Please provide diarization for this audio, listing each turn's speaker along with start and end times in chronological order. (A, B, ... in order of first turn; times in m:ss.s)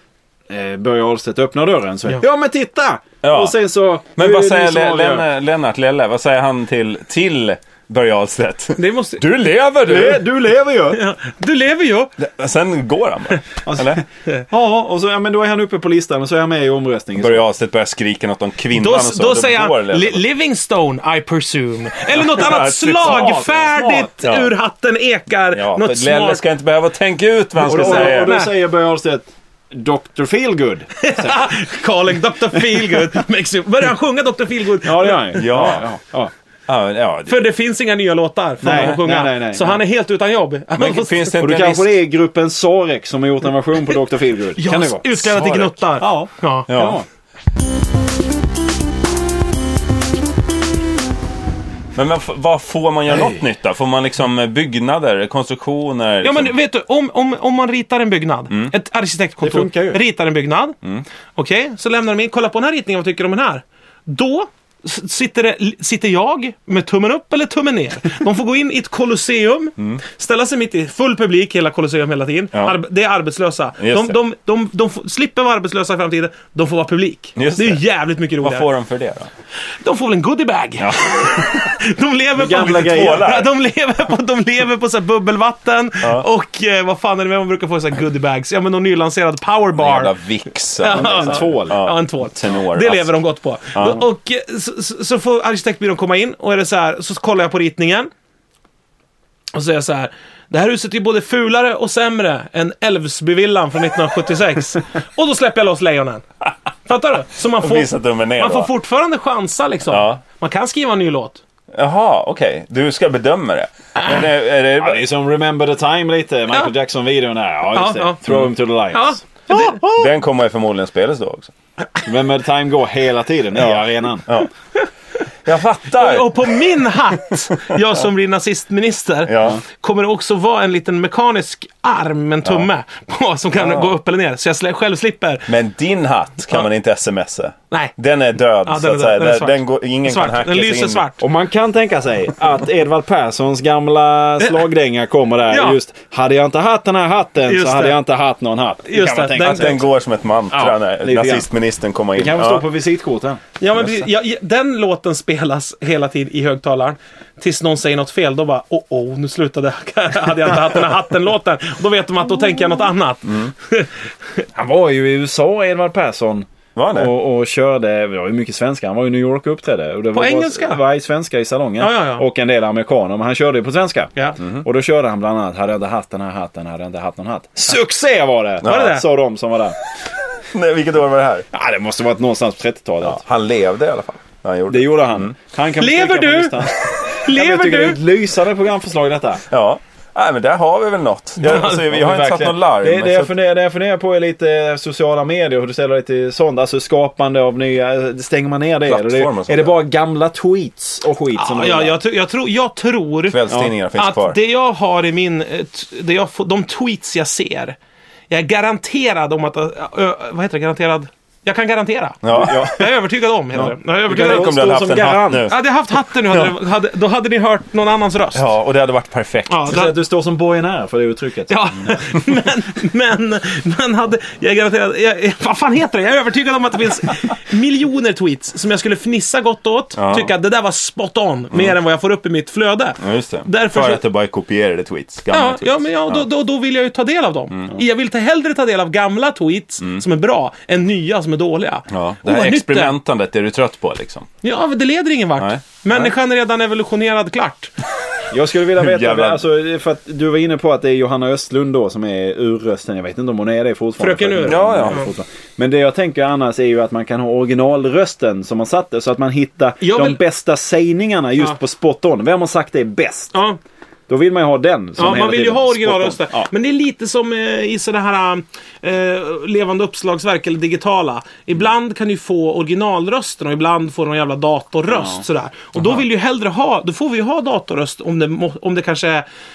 0:00.5-0:05.2 A
0:03.2-0:03.6 B
0:04.2-0:10.2 B
0:08.8-0:09.2 C
0:09.8-0:11.0 A
0:10.9-0:12.1 C
0:12.2-0:14.0 B
0:13.6-0:17.4 A
0:17.2-0:20.2 B
0:18.7-0:26.4 C
0:22.1-0:23.6 B
0:23.0-0:24.1 A
0:24.2-0:24.5 B
0:25.5-0:28.4 B
0:27.6-0:28.5 C
0:27.6-0:31.5 A
0:31.0-0:35.7 C
0:34.8-0:36.3 A
0:35.4-0:35.8 B
0:36.7-0:37.4 B
0:37.3-0:41.4 C
0:38.6-0:39.8 A
0:38.7-0:39.0 B
0:40.8-0:41.9 B
0:41.4-0:45.1 A
0:44.6-0:46.7 C
0:45.2-0:45.7 B
0:46.0-0:47.0 A
0:46.7-0:47.0 B
0:52.0-0:56.5 B
0:56.2-1:00.8 C
0:59.4-1:00.0 A
1:01.3-1:18.7 C
1:13.8-1:14.2 B
1:17.4-1:17.8 B
1:18.4-1:19.3 B
1:19.7-1:30.1 C
1:20.8-1:21.7 B
1:22.4-1:23.3 A
1:22.7-1:23.5 B
1:29.8-1:33.1 B
1:30.8-1:38.1 C
1:30.9-1:31.8 A
1:33.7-1:34.0 B
1:39.5-1:46.2 C
1:46.8-1:51.4 C
1:47.4-1:48.7 B
1:49.9-1:50.2 B
1:51.7-1:55.0 B
1:54.8-1:59.4 A
1:57.7-1:58.2 C
1:58.9-2:00.1 C
1:59.6-2:01.5 B
2:02.0-2:04.3 A
2:03.6-2:04.5 B
2:05.4-2:07.8 B
2:05.9-2:15.5 C
2:09.3-2:09.6 B
2:13.5-2:13.9 B
2:15.5-2:21.0 B
2:18.6-2:21.2 C
2:21.2-2:29.9 A
2:25.5-2:25.8 C
2:27.4-2:28.0 C
2:28.8-2:29.8 C
2:29.4-2:32.6 B
2:30.5-2:31.5 A
2:32.2-2:33.4 A
2:33.6-2:44.4 C
2:33.8-2:34.0 B
2:44.5-2:59.8 A
2:46.8-2:47.1 B
2:50.1-2:50.8 C
2:51.8-2:52.2 C
2:54.4-2:54.6 B
2:58.6-2:59.0 C
2:58.6-2:58.9 B
3:00.5-3:01.5 B
3:01.5-3:03.2 A
3:03.0-3:05.3 B
3:04.7-3:09.4 A
3:05.8-3:08.0 C
3:09.5-3:13.3 B
3:11.4-3:11.9 C
3:11.5-3:22.0 A
3:18.9-3:19.8 B
3:21.3-3:23.4 C
3:23.3-3:24.4 B
3:24.0-3:27.8 C
3:28.3-3:38.4 C
3:32.2-3:32.8 B
3:32.3-3:32.9 A
3:33.5-3:35.4 A
3:33.6-3:35.6 B
3:38.3-3:39.7 B
3:39.5-3:39.9 C
3:39.7-3:42.0 A
3:41.5-3:54.0 C
3:50.0-3:50.3 B
3:53.0-3:56.2 B
3:55.3-4:02.9 C
3:57.5-3:57.8 B
4:01.9-4:04.3 B
4:04.4-4:07.7 C
4:05.4-4:06.1 B
4:08.3-4:23.3 A
4:08.8-4:09.4 B
4:14.0-4:15.1 C
4:14.4-4:15.1 B
4:19.8-4:20.2 C
4:23.3-4:23.6 C
4:24.1-4:26.4 A
4:25.0-4:39.2 C
4:35.8-4:36.0 B